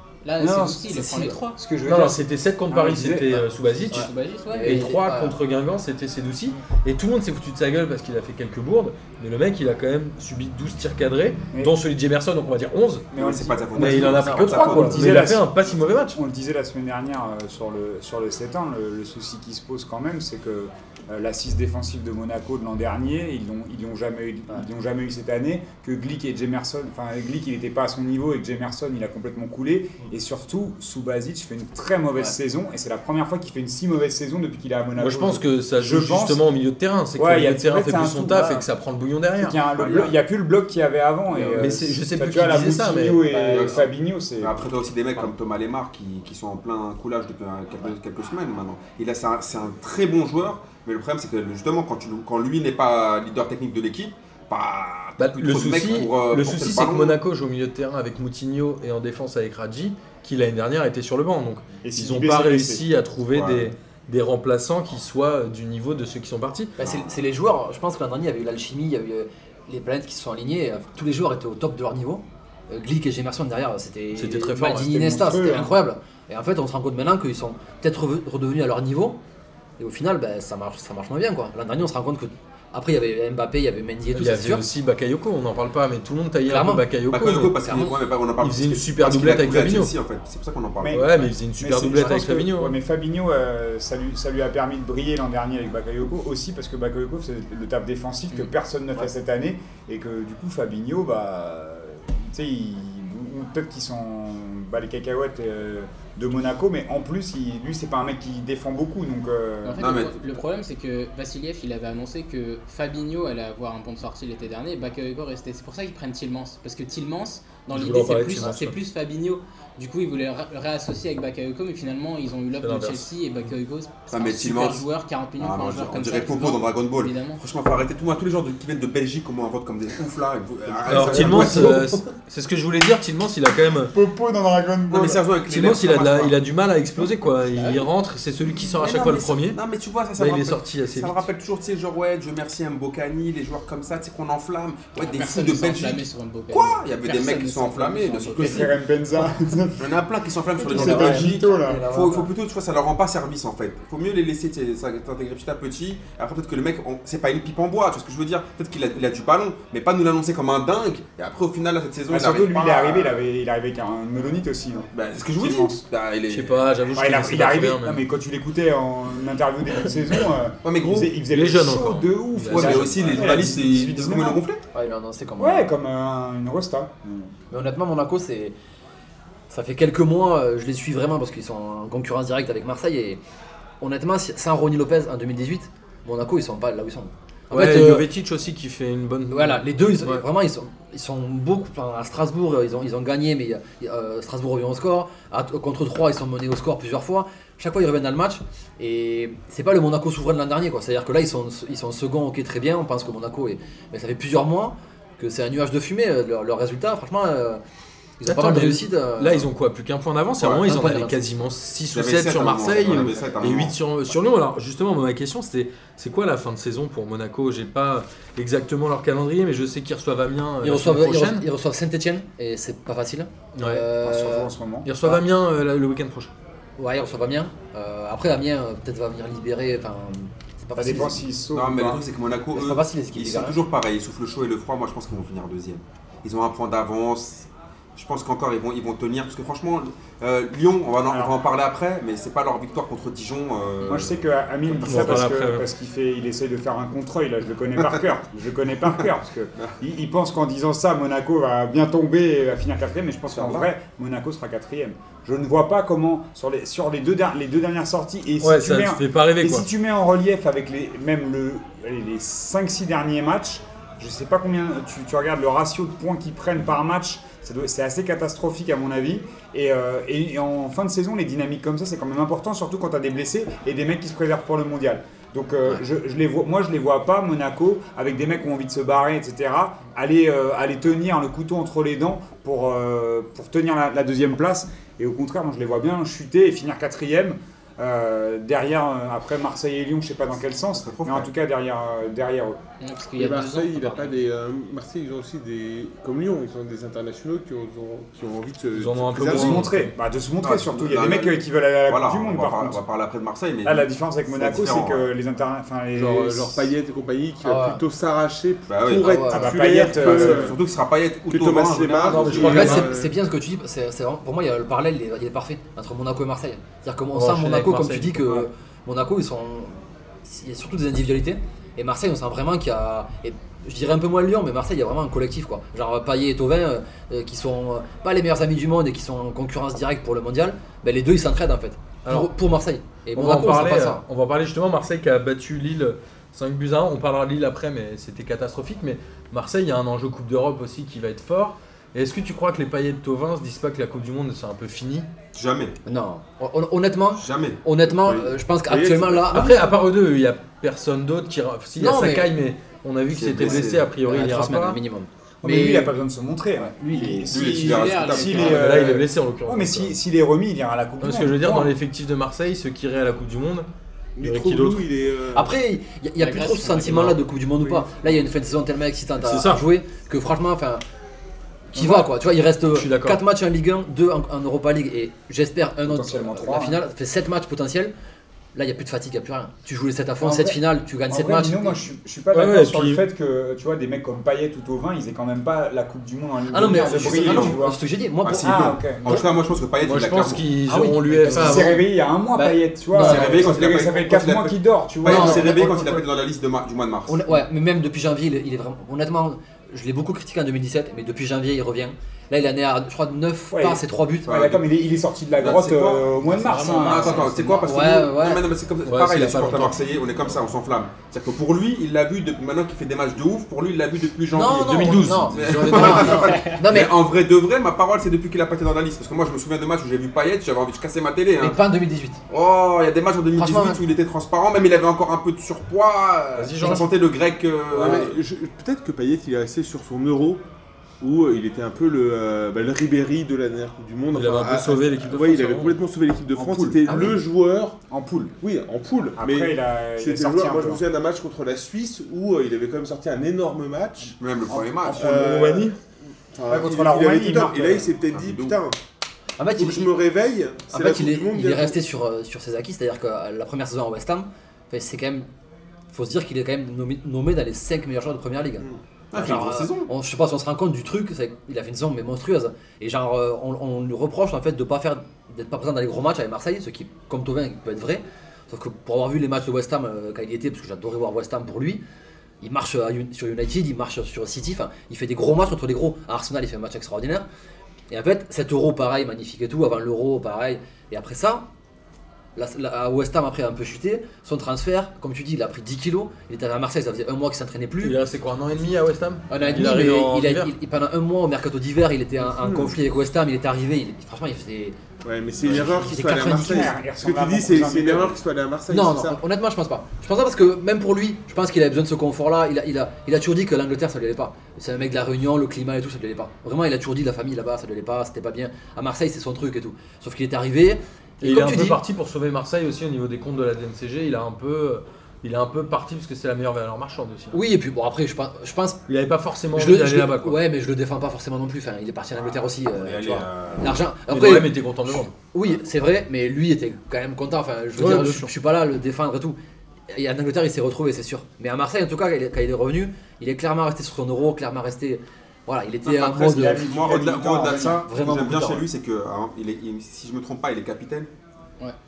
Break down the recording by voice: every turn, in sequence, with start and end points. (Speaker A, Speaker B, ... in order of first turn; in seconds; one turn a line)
Speaker A: 0.2-1.6
Speaker B: 0.4-3.5
Speaker C: 0.9-1.3
Speaker D: 1.9-4.1
Speaker A: 3.9-4.9
Speaker C: 3.9-5.4
Speaker D: 4.6-13.1
Speaker B: 13.1-36.4
Speaker E: 13.1-15.2
Speaker D: 13.8-16.2
Speaker C: 14.0-14.9
Speaker D: 35.0-39.6
Speaker B: 37.2-38.6
Speaker B: 39.4-44.6
Speaker E: 39.8-40.1
Speaker D: 41.3-43.3
Speaker E: 43.4-43.9
Speaker E: 44.4-57.2
Speaker D: 55.2-66.7
Speaker B: 61.8-62.9
Speaker E: 63.3-63.7
Speaker C: 66.8-79.2
Speaker E: 66.8-67.1
Speaker D: 74.2-74.9
Speaker B: 74.8-75.8
Speaker C: 79.8-84.7
Speaker D: 84.1-87.7
Speaker C: 86.5-86.9
Speaker E: 87.1-91.1
Speaker C: 87.6-87.9
Speaker D: 88.4-89.9
Speaker B: 90.8-109.9
Speaker D: 90.9-92.8
Speaker A: 109.6-127.4
Speaker E: 109.8-110.2
Speaker D: 117.7-118.8
Speaker D: 122.6-123.1
Speaker E: 124.1-124.8
Speaker E: 125.4-131.9
Speaker D: 130.9-133.9
Speaker B: 130.9-131.8
Speaker B: 133.9-135.2
Speaker E: 134.9-136.4
Speaker D: 135.5-139.6
Speaker E: 138.6-148.7
Speaker D: 140.2-141.3
Speaker A: 145.0-148.7
Speaker B: 148.3-149.9
Speaker E: 149.8-163.2
Speaker C: 150.6-152.3
Speaker B: 150.6-151.9
Speaker B: 162.1-165.8
Speaker E: 164.9-166.7
Speaker D: 166.3-168.0
Speaker B: 166.9-174.4
Speaker E: 170.6-171.1
Speaker D: 171.2-173.0
Speaker E: 172.5-174.6
Speaker C: 174.7-175.7
Speaker B: 175.4-177.3
Speaker C: 177.5-178.6
Speaker C: 179.5-183.2
Speaker C: 183.8-188.1
Speaker D: 187.5-190.2
Speaker C: 189.3-207.6
Speaker C: 208.2-209.5
Speaker D: 208.2-221.5
Speaker C: 210.6-211.2
Speaker E: 211.9-213.8
Speaker C: 220.6-224.5
Speaker D: 223.5-223.9
Speaker B: 224.0-224.9
Speaker D: 224.8-226.3
Speaker C: 226.8-231.2
Speaker B: 230.8-232.0
Speaker E: 231.5-245.2
Speaker C: 232.5-233.6
Speaker B: 241.1-241.3
Speaker B: 243.9-292.6
Speaker D: 244.8-245.7
Speaker E: 253.3-253.7
Speaker D: 258.4-259.6
Speaker E: 290.7-291.3
Speaker A: 292.8-294.2
Speaker F: 293.1-299.6
Speaker D: 298.7-299.9
Speaker B: 299.2-302.8
Speaker E: 300.4-305.1
Speaker B: 303.6-306.7
Speaker F: 305.9-310.6
Speaker C: 307.4-307.8
Speaker E: 308.7-309.2
Speaker C: 309.0-309.6
Speaker B: 309.3-310.6
Speaker E: 309.9-312.8
Speaker F: 311.3-313.2
Speaker D: 312.1-312.9
Speaker C: 312.3-334.0
Speaker D: 317.1-318.5
Speaker D: 332.1-332.3
Speaker D: 333.1-345.1
Speaker E: 345.3-345.8
Speaker C: 345.9-349.6
Speaker E: 347.1-347.6
Speaker F: 347.8-349.5
Speaker D: 349.3-354.8
Speaker C: 351.8-352.3
Speaker E: 353.1-353.9
Speaker C: 353.4-355.9
Speaker B: 355.4-361.7
Speaker A: 357.2-358.9
Speaker E: 357.3-358.7
Speaker D: 358.4-360.0
Speaker D: 361.0-363.7
Speaker F: 364.2-365.6
Speaker D: 364.2-364.9
Speaker C: 365.3-370.8
Speaker A: 366.2-367.2
Speaker D: 366.8-367.2
Speaker D: 369.2-369.6
Speaker C: 371.7-377.9
Speaker B: 371.8-372.1
Speaker D: 372.7-373.2
Speaker B: 375.8-376.8
Speaker C: 378.5-381.8
Speaker B: 380.2-387.8
Speaker D: 382.3-383.1
Speaker C: 386.5-389.3
Speaker E: 386.7-387.6
Speaker E: 388.2-390.5
Speaker B: 388.4-389.2
Speaker D: 389.8-391.9
Speaker C: 390.7-391.8
Speaker B: 391.3-395.8
Speaker C: 392.4-393.6
Speaker E: 392.9-397.3
Speaker C: 395.1-396.0
Speaker C: 397.1-404.4
Speaker B: 403.5-407.3
Speaker E: 404.3-404.6
Speaker E: 405.4-421.6
Speaker A: 406.3-407.6
Speaker C: 406.9-408.5
Speaker D: 408.8-409.8
Speaker C: 414.3-416.9
Speaker D: 414.6-416.4
Speaker A: 416.3-416.5
Speaker C: 421.4-422.2
Speaker E: 422.3-428.2
Speaker C: 423.4-423.8
Speaker D: 426.4-426.9
Speaker F: 427.7-430.4
Speaker F: 431.0-437.8
Speaker D: 434.1-435.8
Speaker E: 436.4-436.8
Speaker C: 436.9-437.1
Speaker B: 437.9-438.3
Speaker F: 438.4-444.1
Speaker B: 439.2-440.8
Speaker E: 444.2-445.6
Speaker F: 444.8-445.8
Speaker F: 446.3-448.8
Speaker B: 446.5-447.9
Speaker E: 448.1-448.6
Speaker C: 449.4-449.9
Speaker F: 449.6-451.8
Speaker C: 450.7-455.3
Speaker C: 455.9-471.8
Speaker E: 459.1-459.9
Speaker C: 472.4-477.3
Speaker C: 477.9-481.4
Speaker C: 482.4-488.0
Speaker D: 487.8-490.5
Speaker C: 489.3-494.8
Speaker F: 492.2-492.8
Speaker F: 495.0-499.2
Speaker C: 495.4-496.7
Speaker B: 496.3-498.2
Speaker C: 498.7-511.8
Speaker D: 511.2-517.4
Speaker C: 517.3-518.8
Speaker D: 518.9-520.4
Speaker C: 519.5-529.4
Speaker E: 522.2-523.8
Speaker D: 524.1-525.1
Speaker D: 527.8-528.3
Speaker C: 529.9-536.7
Speaker E: 535.8-541.1
Speaker B: 536.2-537.9
Speaker C: 537.6-538.7